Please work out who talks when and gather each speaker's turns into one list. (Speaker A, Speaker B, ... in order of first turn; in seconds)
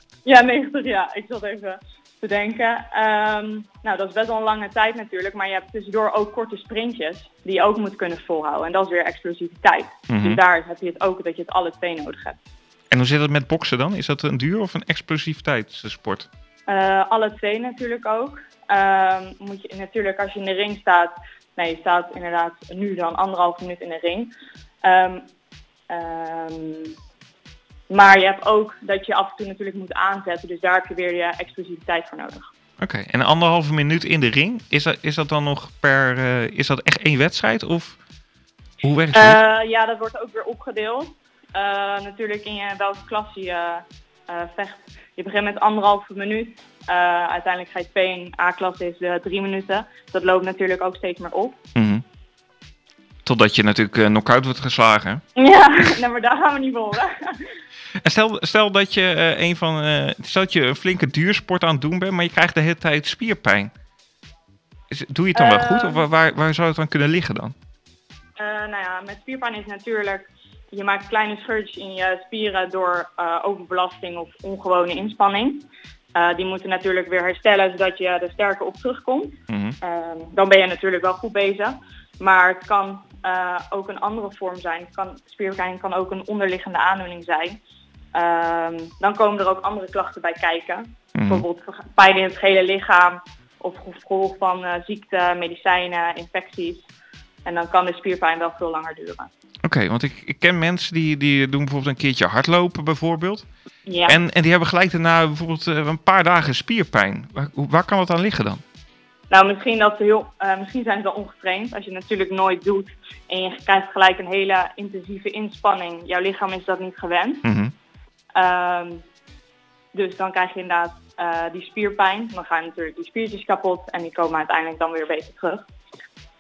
Speaker A: 0.2-12.4, 16.7-24.3, 24.8-25.3, 25.9-26.9, 27.9-32.5, 39.1-51.6, 55.4-57.5, 65.3-66.0, 68.4-87.6, 88.1-96.9, 97.5-99.3, 103.9-104.2, 109.3-117.5, 118.3-119.0, 119.9-125.6
Speaker B: 10.1-10.4, 12.9-16.3, 32.8-38.0, 38.8-39.4, 51.8-52.0, 53.2-55.2, 58.0-63.7, 64.9-67.5, 79.5-79.8, 91.2-91.5, 99.7-103.5, 104.1-108.6, 117.4-117.7